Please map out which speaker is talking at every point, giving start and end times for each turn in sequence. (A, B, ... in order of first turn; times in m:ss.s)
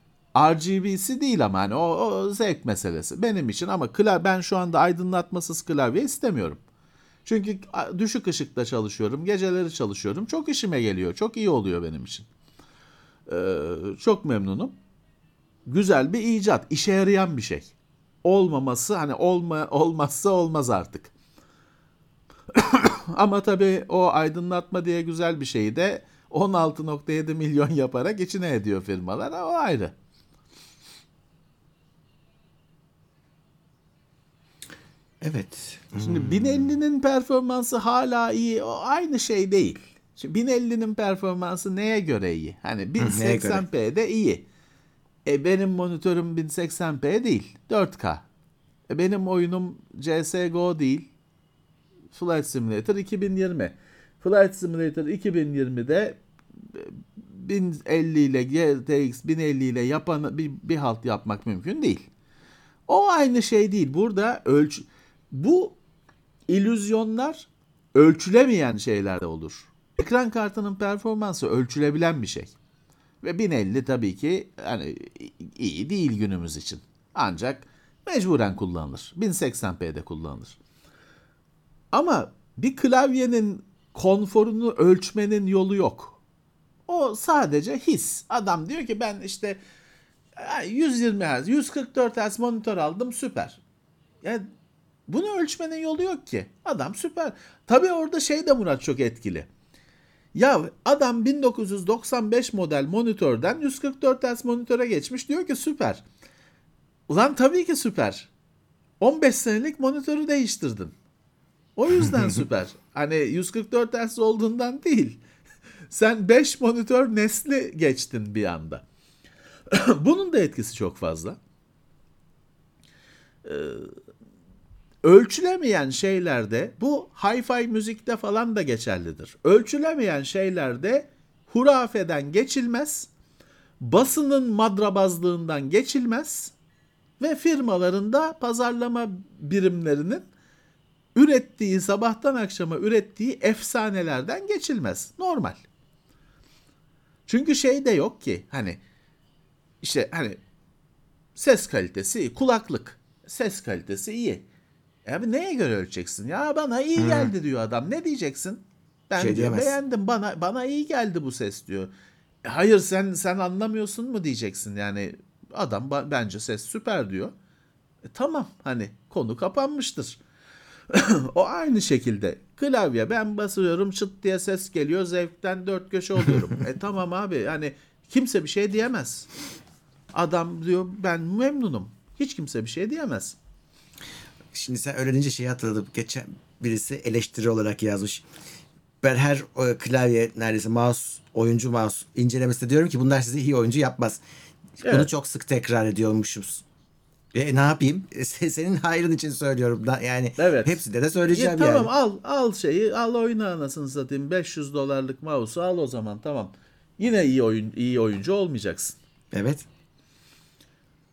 0:00.3-0:06.6 A
0:07.2-0:12.3 A
0:13.3-0:14.8 A
0:15.7-0:17.7 A
0:18.2-0:21.1 A
0:22.5-0:29.9 A
0:35.2-0:36.7 B
0:36.0-0:44.4 A
0:43.0-0:43.6 B
0:45.2-0:48.2 A
0:48.9-0:51.1 A
0:52.1-0:56.2 A
0:56.7-1:02.1 A
1:02.9-1:05.8 A
1:06.5-1:12.5 A
1:13.2-1:20.6 A
1:21.9-1:26.2 A
1:26.9-1:29.6 A
1:30.4-1:33.6 A
1:35.1-1:39.5 A
1:40.3-1:46.0 A
1:47.1-1:48.3 A
1:49.0-1:50.9 A
1:51.8-1:55.2 A
1:52.0-1:52.4 B
1:55.9-1:58.8 A
1:59.7-2:01.4 A
2:03.4-2:03.9 A
2:05.0-2:13.1 A
2:13.8-2:16.5 A
2:17.2-2:20.3 A
2:21.1-2:25.6 A
2:27.3-2:28.8 A
2:29.8-2:30.4 A
2:31.3-2:34.4 A
2:35.0-2:41.9 A
2:37.0-2:37.3 B
2:39.2-2:39.8 B
2:42.4-2:47.3 A
2:48.1-2:50.2 A
2:50.9-2:59.3 A
3:00.1-3:03.4 A
3:04.5-3:08.3 B
3:09.0-3:14.2 B
3:14.8-3:15.1 A
3:14.8-3:16.6 B
3:17.3-3:21.9 B
3:20.4-3:20.8 A
3:21.3-3:29.0 A
3:29.3-3:29.6 B